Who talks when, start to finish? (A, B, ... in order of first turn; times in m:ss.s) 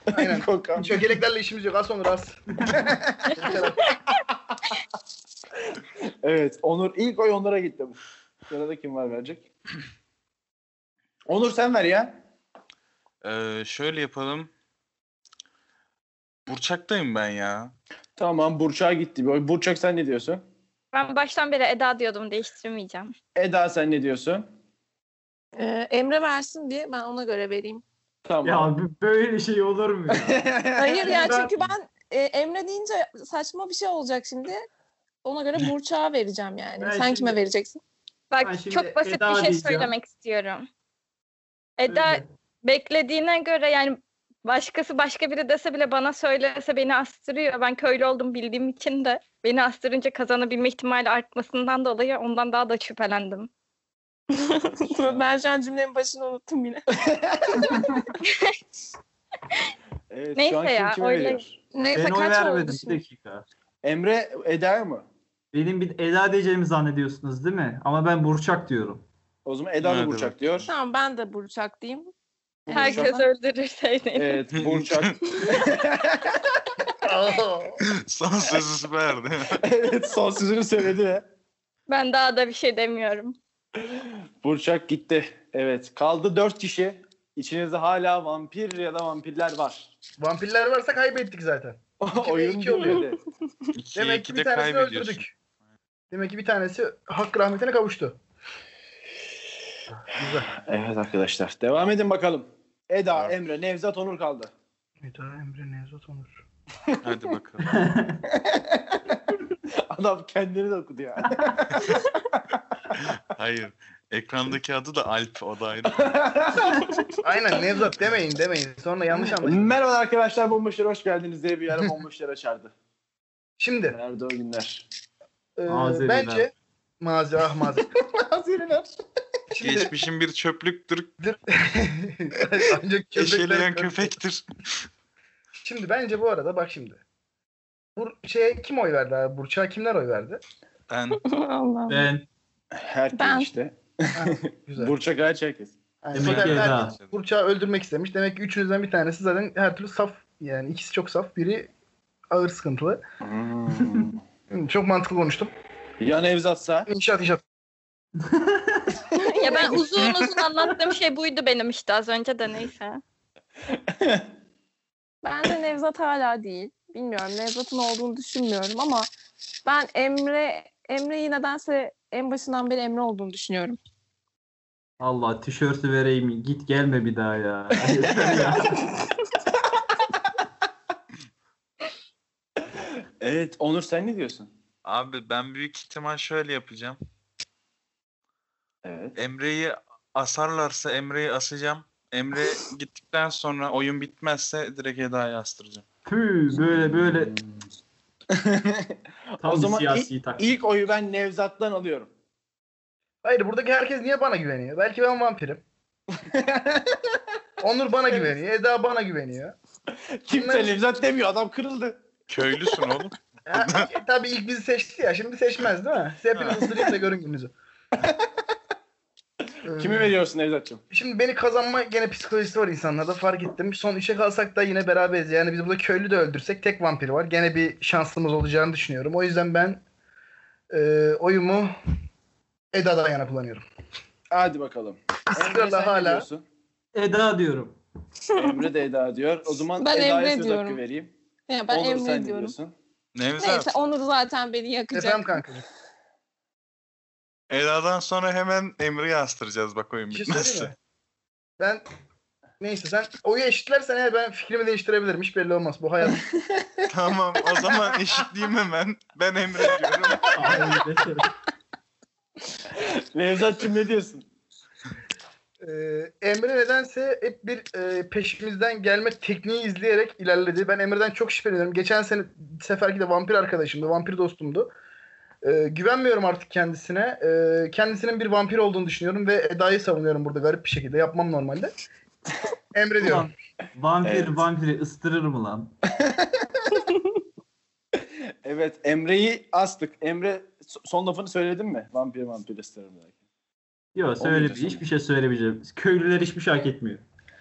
0:00.1-0:04.0 A
0:00.1-0:00.9 B
0:06.2-0:09.5 B
0:11.3-0:12.2 B
0:13.2-0:14.5 C
0:16.5-0:17.7 C
0:18.2-0:20.4 B
0:20.9-0:23.1 D
0:23.4-0:24.4 B
0:25.6-0:27.8 E
0:28.2-0:28.7 B
0:28.4-0:30.4 F
0:30.1-0:31.4 B
0:30.8-0:34.7 E
0:31.0-0:31.4 F
0:35.2-0:37.8 E
0:36.8-0:37.4 F
0:38.3-0:40.7 D
0:38.4-0:39.9 F
0:41.8-0:53.5 D
0:41.9-0:42.3 F
0:54.4-0:56.8 E
0:57.1-0:57.7 B
1:00.1-1:01.6 B
1:00.4-1:01.4 D
1:01.7-1:03.0 E
1:01.9-1:03.5 F
1:03.8-1:05.1 B
1:05.5-1:09.0 F
1:09.5-1:10.7 B
1:09.8-1:10.7 C
1:10.7-1:12.1 E
1:12.7-1:13.2 B
1:12.7-1:14.4 D
1:12.7-1:13.2 E
1:14.1-1:16.4 B
1:14.5-1:15.4 C
1:17.0-1:17.8 A
1:17.8-1:19.6 C
1:19.6-1:21.3 B
1:21.9-1:23.4 D
1:23.8-1:29.9 B
1:30.2-1:33.1 A
1:32.0-1:33.2 B
1:33.8-1:35.3 C
1:34.0-1:35.3 A
1:36.1-1:38.2 A
1:40.1-1:40.5 A
1:40.6-1:44.5 B
1:45.0-1:46.4 A
1:47.0-1:47.8 C
1:47.6-1:48.2 F
1:48.3-1:49.2 B
1:49.9-1:52.4 B
1:51.2-1:51.6 F
1:53.0-1:56.2 C
1:55.9-1:56.7 B
1:57.2-1:59.8 A
1:59.1-2:02.7 B
2:03.6-2:04.0 A
2:03.9-2:04.9 B
2:05.6-2:07.9 A
2:05.7-2:06.5 F
2:08.2-2:08.9 B
2:09.5-2:09.9 A
2:09.6-2:11.1 C
2:11.2-2:14.2 A
2:13.1-2:14.4 C
2:15.6-2:17.0 A
2:18.0-2:20.4 A
2:20.9-2:21.2 C
2:21.2-2:22.1 E
2:21.9-2:22.3 F
2:22.7-2:25.8 B
2:23.1-2:23.5 E
2:24.2-2:25.0 A
2:26.0-2:31.7 A
2:26.1-2:27.0 F
2:26.2-2:27.2 C
2:32.3-2:33.0 A
2:33.2-2:34.2 B
2:34.5-2:35.5 A
2:36.0-2:36.9 B
2:36.9-2:37.4 A
2:38.3-2:38.9 F
2:39.2-2:40.1 E
2:39.4-2:43.0 D
2:43.7-2:44.3 B
2:45.2-2:49.1 E
2:49.6-2:53.8 E
2:55.0-2:58.9 F
2:57.9-2:58.5 B
3:03.2-3:04.5 B
3:04.8-3:07.0 C
3:08.8-3:09.2 B
3:09.2-3:15.8 C
3:16.1-3:17.4 F
3:16.7-3:17.3 B
3:18.3-3:22.1 B
3:19.4-3:20.5 F
3:23.2-3:25.6 A
3:26.2-3:27.0 B
3:27.6-3:29.6 A
3:30.2-3:32.0 B
3:30.3-3:30.8 A
3:32.3-3:33.9 C
3:33.5-3:37.5 A
3:36.3-3:36.9 C
3:39.7-3:40.2 A
3:39.7-3:40.8 B
3:40.9-3:49.8 A
3:50.7-3:51.7 A
3:52.7-3:53.7 A
3:54.3-3:56.4 B
3:55.3-3:56.3 A
3:57.0-3:57.8 F
3:58.4-3:58.8 E
3:58.4-4:01.1 B
3:59.8-4:00.8 E
4:01.5-4:02.6 E
4:01.7-4:02.7 B
4:03.2-4:03.7 C
4:03.4-4:05.4 E
4:04.9-4:05.6 A
4:07.5-4:10.7 C
4:10.1-4:10.8 A
4:11.6-4:11.8 A
4:12.6-4:16.2 A
4:16.2-4:16.9 B
4:16.9-4:20.3 C
4:19.6-4:20.3 B
4:20.3-4:21.3 F
4:22.7-4:24.3 B
4:25.6-4:34.7 A
4:35.4-4:41.7 A
4:42.7-4:43.3 A
4:43.0-4:45.7 F
4:44.0-4:44.4 B
4:46.0-4:46.4 B
4:48.0-4:53.1 B
4:54.0-4:57.0 F
4:54.2-4:54.8 B